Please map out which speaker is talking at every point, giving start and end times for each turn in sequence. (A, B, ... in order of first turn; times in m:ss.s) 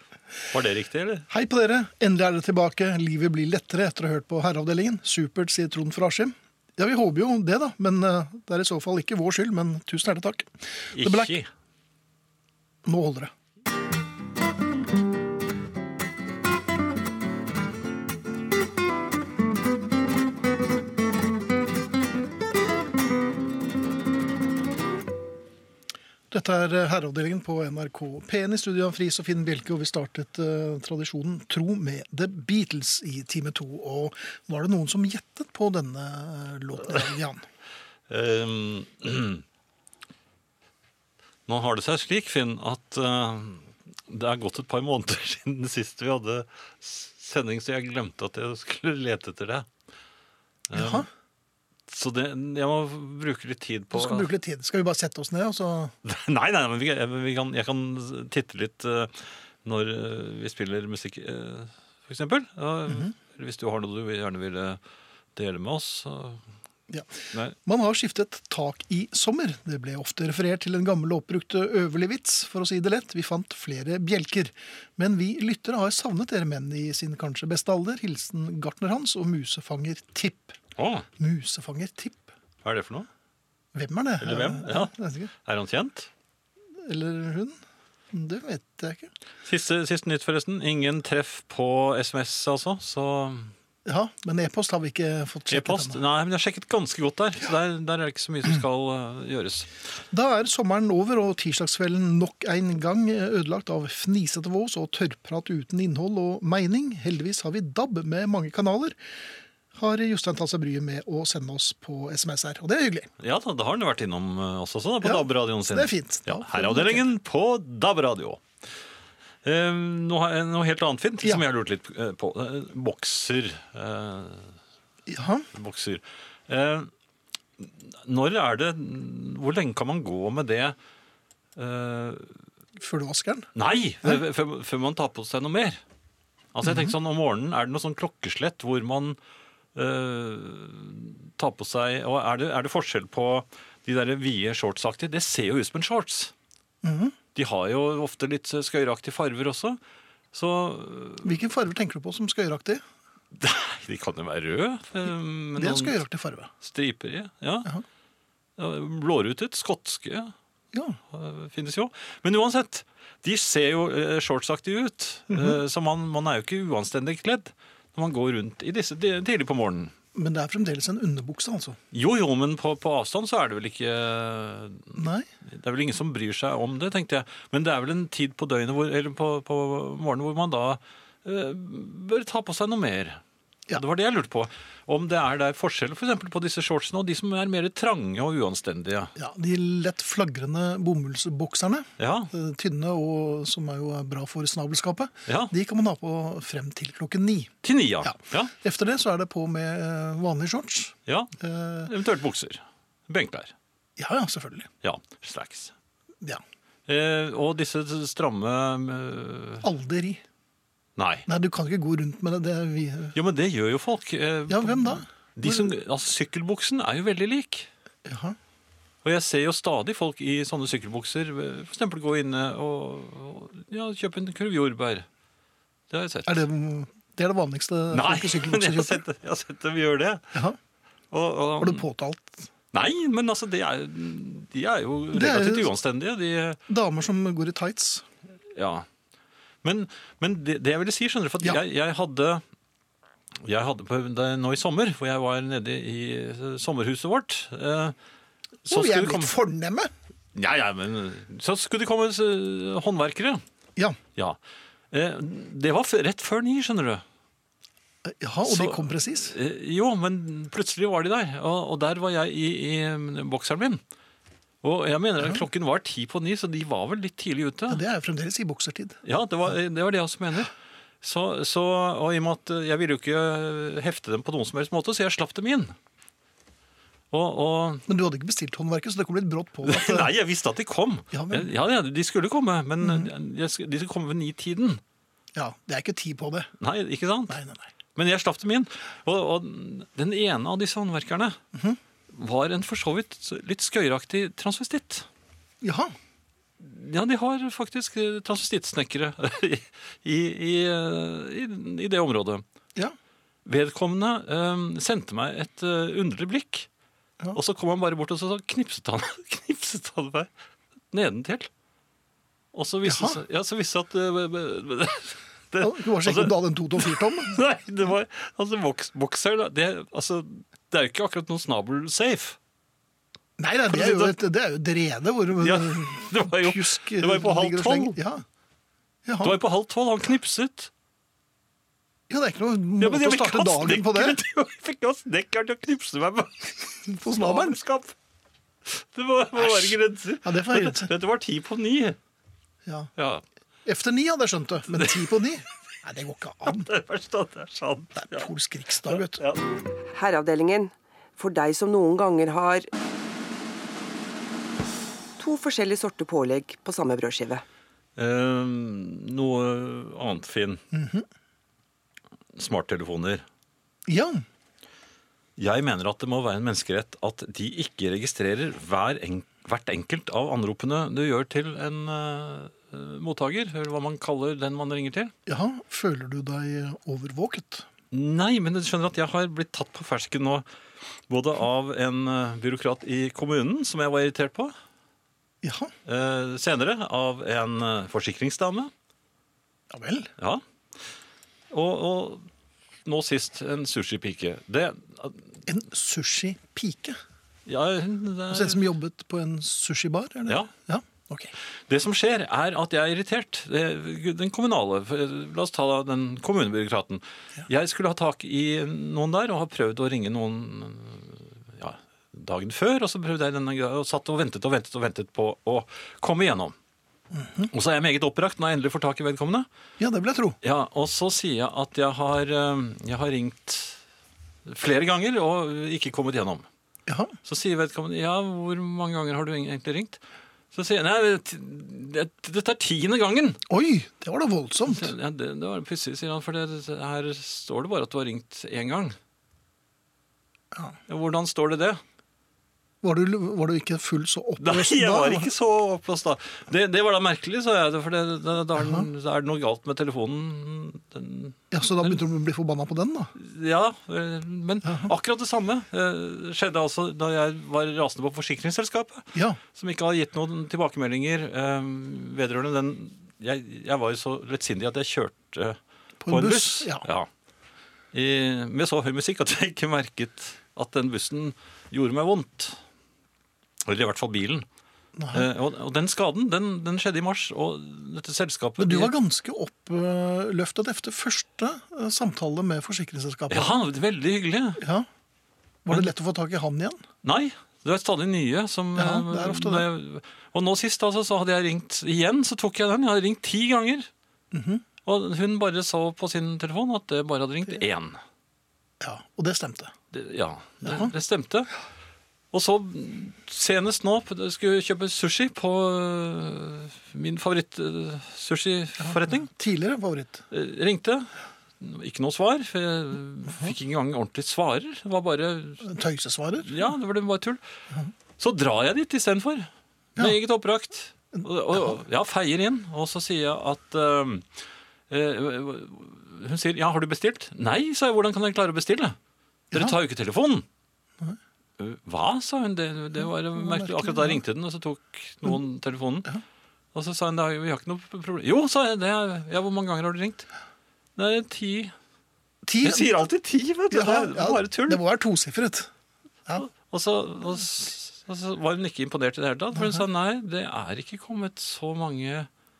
0:00.5-0:01.3 A
0:01.3-0:11.4 B
0:10.9-0:11.5 A
0:12.9-0:13.3 B
0:26.3-0:37.4 B
0:38.1-0:39.4 A
0:41.5-0:49.7 A
0:50.7-0:51.1 A
0:50.7-0:51.1 B
0:51.9-0:54.3 A
0:53.9-0:55.9 B
0:56.0-1:04.8 A
1:05.4-1:06.4 A
1:07.6-1:20.6 B
1:20.8-1:21.1 A
1:21.2-1:22.3 B
1:22.6-1:23.1 A
1:23.8-1:25.3 B
1:24.2-1:26.1 A
1:26.8-1:27.6 B
1:28.1-1:29.1 B
1:29.5-1:33.5 A
1:33.9-1:36.0 B
1:35.5-1:39.7 A
1:40.1-1:49.0 B
1:49.7-1:53.1 B
1:53.2-1:58.4 A
1:55.0-1:57.1 B
1:59.4-2:04.5 A
2:05.1-2:05.5 B
2:05.5-2:06.9 A
2:07.6-2:10.8 A
2:11.6-2:12.4 A
2:12.8-2:13.5 B
2:13.6-2:15.8 A
2:16.5-2:19.2 A
2:16.6-2:16.9 B
2:19.7-2:26.3 A
2:26.8-2:27.2 B
2:27.4-2:29.8 A
2:30.3-2:31.4 A
2:31.2-2:32.8 B
2:33.3-2:36.0 A
2:35.6-2:36.5 B
2:36.6-2:37.7 A
2:38.6-2:40.3 A
2:40.7-2:41.0 B
2:41.1-2:49.9 A
2:45.3-2:45.6 B
2:50.1-2:51.8 B
2:51.9-3:03.2 A
2:55.0-2:55.3 B
3:03.7-3:09.1 A
3:09.2-3:21.9 B
3:12.0-3:12.3 A
3:15.3-3:15.5 A
3:17.6-3:18.5 A
3:21.1-3:21.3 A
3:21.9-3:23.5 A
3:24.0-3:24.7 B
3:24.8-3:25.7 A
3:26.9-3:29.6 A
3:29.6-3:30.2 B
3:31.0-3:31.3 A
3:31.3-3:33.2 B
3:33.1-3:37.7 A
3:34.5-3:35.7 B
3:38.0-3:38.4 B
3:39.0-3:45.1 A
3:45.9-3:46.5 A
3:46.3-3:49.0 B
3:47.9-3:50.3 A
3:51.1-3:51.9 A
3:51.6-3:52.5 B
3:52.7-3:56.6 A
3:55.1-3:55.7 B
3:56.7-3:58.0 B
3:58.5-3:58.9 A
3:59.6-4:02.4 A
4:03.4-4:08.0 A
4:08.7-4:09.3 A
4:08.7-4:09.9 B
4:10.4-4:13.4 A
4:14.9-4:17.0 A
4:18.0-4:19.4 B
4:18.4-4:23.8 A
4:24.6-4:27.8 A
4:27.7-4:29.0 B
4:29.0-4:35.8 A
4:37.1-4:37.9 A
4:37.9-4:40.1 B
4:39.6-4:44.8 A
4:41.1-4:41.5 B
4:42.8-4:43.1 B
4:45.4-4:46.5 B
4:46.6-4:47.4 A
4:47.3-4:47.7 B
4:48.0-4:51.4 A
4:52.1-4:55.1 A
4:55.6-4:55.9 B
4:56.6-5:02.4 A
5:03.4-5:06.7 A
5:07.3-5:10.3 A
5:10.9-5:11.5 A
5:12.5-5:22.4 A
5:12.8-5:13.2 B
5:15.6-5:17.4 B
5:23.4-5:28.2 B
5:23.7-5:24.2 A
5:25.4-5:28.0 A
5:29.1-5:29.4 B
5:29.2-5:30.7 A
5:32.1-5:34.2 B
5:32.8-5:38.0 A
5:36.9-5:37.6 B
5:38.6-5:42.0 A
5:39.4-5:40.9 B
5:42.7-5:42.9 B
5:43.0-5:43.2 A
5:43.6-5:46.7 B
5:44.7-5:45.2 A
5:46.4-5:48.3 A
5:48.0-5:49.2 B
5:48.8-5:49.6 A
5:49.9-5:52.7 C
5:55.2-5:57.4 C
5:58.0-6:00.6 A
6:00.7-6:01.1 B
6:02.3-6:03.2 A
6:03.9-6:04.2 B
6:05.4-6:15.1 A
6:15.3-6:17.7 B
6:17.9-6:20.4 A
6:21.1-6:24.5 A
6:25.4-6:25.7 B
6:25.8-6:28.7 A
6:29.7-6:30.1 B
6:30.2-6:30.4 A
6:31.5-6:32.3 A
6:32.8-6:35.3 A
6:35.5-6:37.0 B
6:37.5-6:38.6 A
6:38.3-6:41.3 B
6:41.7-6:56.6 A
6:57.1-6:57.5 B
6:57.5-6:59.5 A
6:59.8-7:00.4 B
7:00.4-7:03.8 A
7:04.5-7:06.5 A
7:06.9-7:07.2 B
7:07.2-7:10.0 A
7:10.5-7:13.4 A
7:13.5-7:14.9 B
7:14.6-7:19.0 A
7:20.9-7:21.8 A
7:22.8-7:25.3 B
7:24.4-7:32.0 A
7:28.6-7:28.9 B
7:31.5-7:33.1 B
7:33.2-7:47.1 A
7:34.6-7:34.9 B
7:39.1-7:39.4 B
7:46.0-7:46.8 B
7:47.9-7:52.6 A
7:53.6-7:54.5 A
7:55.0-7:55.3 B
7:55.1-7:58.9 A
7:58.6-8:03.6 B
8:03.3-8:04.6 A
8:04.6-8:04.9 B
8:05.6-8:06.8 B
8:07.0-8:13.9 A
8:08.8-8:09.7 B
8:14.3-8:14.6 B
8:14.8-8:18.0 A
8:18.8-8:19.7 B
8:19.9-8:21.5 A
8:20.6-8:20.9 B
8:22.3-8:29.3 A
8:28.8-8:30.2 B
8:30.3-8:35.7 A
8:35.6-8:36.7 B
8:36.4-8:37.4 A
8:38.2-8:49.0 A
8:41.1-8:41.8 B
8:49.5-8:49.8 B
8:49.5-8:50.5 A
8:51.6-8:56.1 A
8:53.4-8:54.2 B
8:56.7-9:00.3 A
9:01.0-9:01.7 A
9:02.4-9:02.9 B
9:02.6-9:04.8 A
9:03.7-9:05.7 B
9:06.4-9:12.3 A
9:09.6-9:09.8 B